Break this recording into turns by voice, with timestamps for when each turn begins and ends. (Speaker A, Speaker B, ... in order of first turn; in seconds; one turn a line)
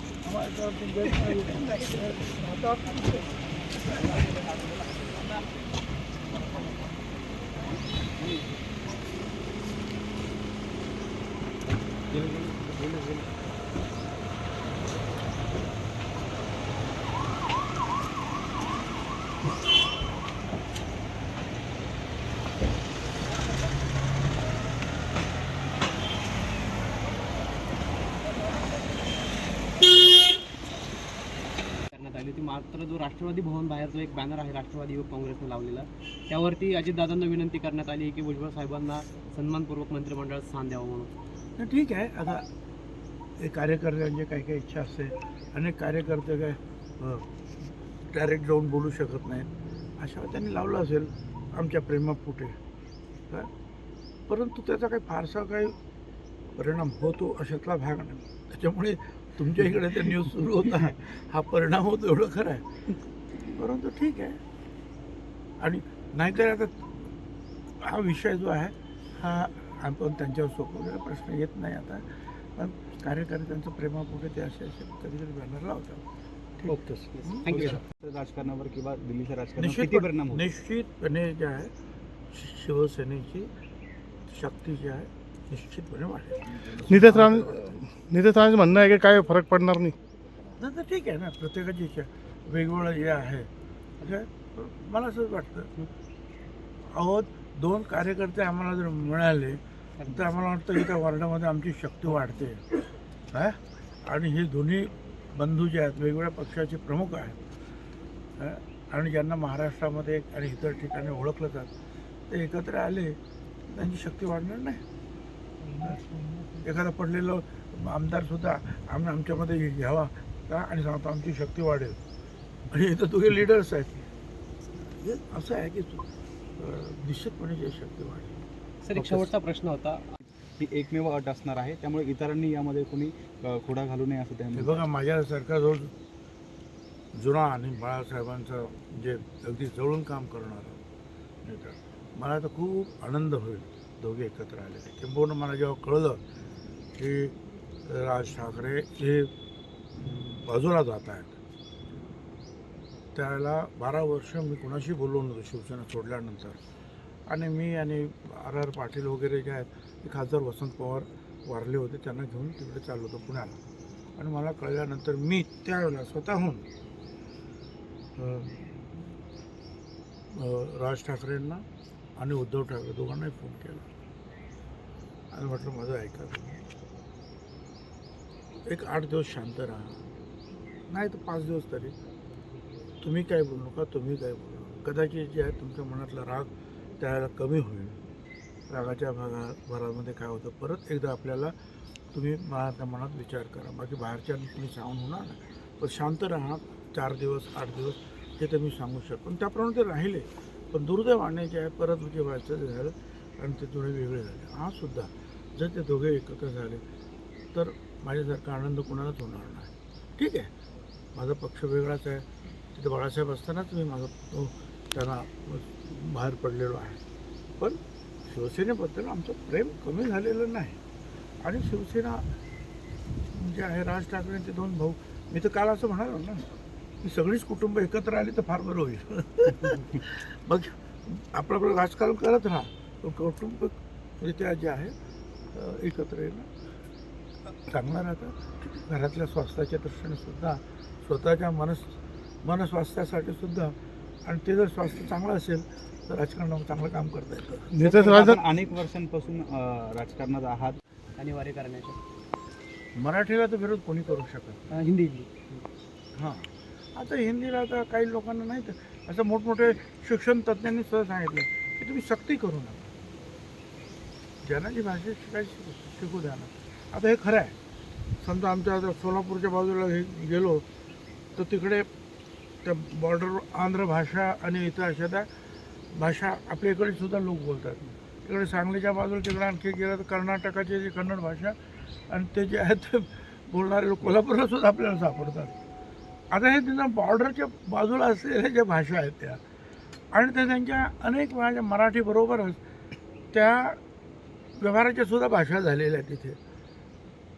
Speaker A: 0.2-3.3
Speaker B: 12.1-13.3
Speaker C: 31.9-41.1
Speaker A: 41.6-42.5
Speaker A: 43.4-47.4
Speaker A: 48.1-52.6
Speaker A: 54.3-55.8
Speaker A: 56.5-62.8
Speaker A: 63.5-64.4
Speaker A: 65.6-67.1
Speaker A: 67.8-76.0
Speaker A: 76.6-77.8
Speaker D: 76.8-77.0
Speaker C: 77.1-77.8
Speaker B: 77.5-80.5
Speaker A: 79.6-81.7
Speaker A: 82.3-83.5
Speaker A: 84.3-87.8
Speaker D: 86.7-90.0
Speaker A: 90.6-93.5
Speaker A: 94.0-95.7
Speaker A: 96.9-107.4
Speaker C: 100.0-100.3
Speaker A: 108.4-111.7
Speaker A: 112.3-114.8
Speaker A: 116.6-122.0
Speaker A: 122.7-124.1
Speaker A: 124.8-126.1
Speaker A: 126.6-128.4
Speaker C: 128.8-130.1
Speaker B: 130.6-134.8
Speaker A: 134.5-135.9
Speaker A: 137.1-140.8
Speaker A: 141.4-146.2
Speaker A: 146.9-149.3
Speaker A: 150.0-151.4
Speaker A: 153.1-156.6
Speaker A: 157.3-163.6
Speaker A: 164.2-166.7
Speaker A: 168.2-169.0
Speaker A: 170.3-171.6
Speaker A: 172.2-173.8
Speaker A: 175.3-176.7
Speaker A: 178.7-180.1
Speaker A: 180.9-181.9
Speaker A: 183.0-188.0
Speaker A: 188.7-191.5
Speaker A: 192.1-206.8
Speaker A: 207.5-210.5
Speaker A: 211.1-217.0
Speaker A: 217.6-220.8
Speaker A: 221.4-222.3
Speaker A: 223.3-234.9
Speaker A: 235.5-236.5
Speaker A: 237.5-247.7
Speaker D: 247.7-248.4
Speaker B: 247.8-250.8
Speaker C: 251.2-252.0
Speaker A: 252.9-254.6
Speaker C: 254.7-255.6
Speaker A: 256.1-262.9
Speaker A: 264.4-267.6
Speaker A: 268.2-270.6
Speaker A: 271.3-271.9
Speaker A: 272.6-275.3
Speaker A: 275.9-285.6
Speaker A: 286.3-289.4
Speaker A: 290.1-292.6
Speaker A: 293.3-293.8
Speaker A: 294.6-296.4